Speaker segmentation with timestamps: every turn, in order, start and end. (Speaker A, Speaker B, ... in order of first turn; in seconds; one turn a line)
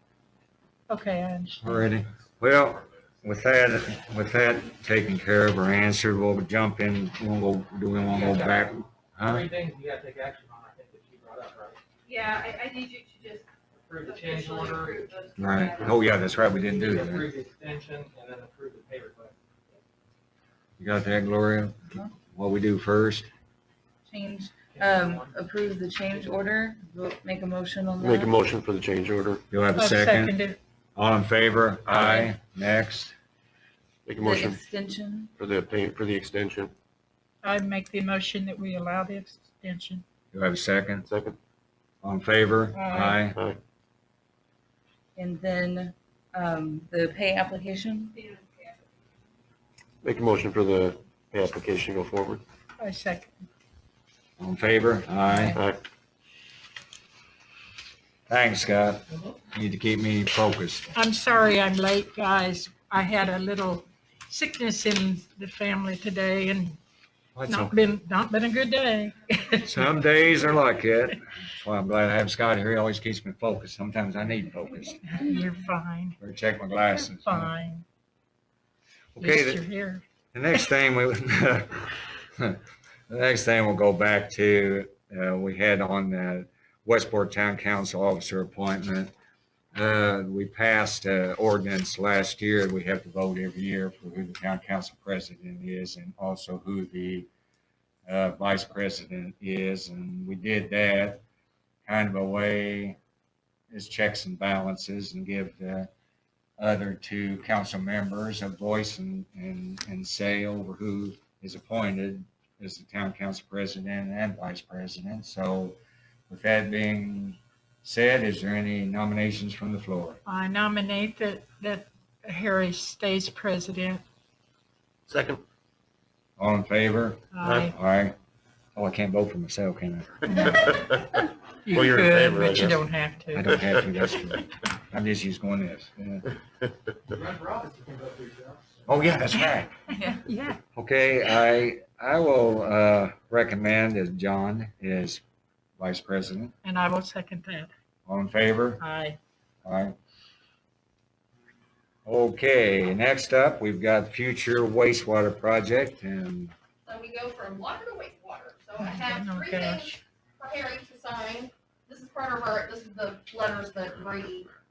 Speaker A: 0.9-1.9
Speaker B: 1.6-9.5
Speaker C: 8.0-11.8
Speaker D: 12.1-13.5
Speaker C: 13.7-15.2
Speaker D: 14.0-16.2
Speaker B: 15.4-17.3
Speaker C: 16.2-19.4
Speaker B: 20.8-23.3
Speaker E: 24.1-28.3
Speaker C: 24.7-25.4
Speaker C: 26.0-26.4
Speaker F: 28.0-29.4
Speaker B: 29.5-30.4
Speaker A: 29.8-30.6
Speaker B: 31.0-33.1
Speaker F: 31.9-32.3
Speaker F: 34.1-34.6
Speaker E: 34.2-35.3
Speaker F: 35.4-36.7
Speaker A: 37.4-40.0
Speaker B: 40.3-41.1
Speaker F: 41.0-41.4
Speaker B: 42.0-43.4
Speaker A: 42.7-43.3
Speaker F: 43.3-43.6
Speaker E: 45.2-48.2
Speaker D: 48.1-48.7
Speaker F: 50.0-52.4
Speaker A: 52.8-53.3
Speaker B: 54.4-55.6
Speaker A: 55.3-55.6
Speaker F: 55.5-55.8
Speaker B: 58.3-61.0
Speaker A: 60.9-66.8
Speaker B: 67.3-67.7
Speaker A: 67.5-69.9
Speaker B: 69.5-75.1
Speaker A: 75.0-76.2
Speaker B: 76.2-77.5
Speaker A: 76.8-77.8
Speaker B: 79.2-79.6
Speaker A: 79.2-80.0
Speaker B: 80.3-89.1
Speaker B: 89.7-97.3
Speaker B: 98.1-101.2
Speaker B: 101.8-103.0
Speaker B: 103.7-105.9
Speaker B: 106.6-115.8
Speaker B: 116.3-120.2
Speaker A: 120.2-124.0
Speaker F: 125.1-125.4
Speaker B: 126.4-128.2
Speaker A: 127.3-127.7
Speaker B: 128.8-130.5
Speaker A: 130.2-130.9
Speaker A: 131.7-133.6
Speaker F: 131.7-132.8
Speaker B: 133.3-136.2
Speaker C: 137.1-138.9
Speaker B: 138.9-139.7
Speaker A: 140.0-140.6
Speaker B: 140.8-145.2
Speaker B: 145.8-146.6
Speaker A: 146.6-147.7
Speaker B: 148.1-148.8
Speaker A: 148.8-149.2
Speaker B: 149.6-149.9
Speaker B: 152.1-156.5
Speaker G: 156.9-164.5
Speaker A: 158.8-159.9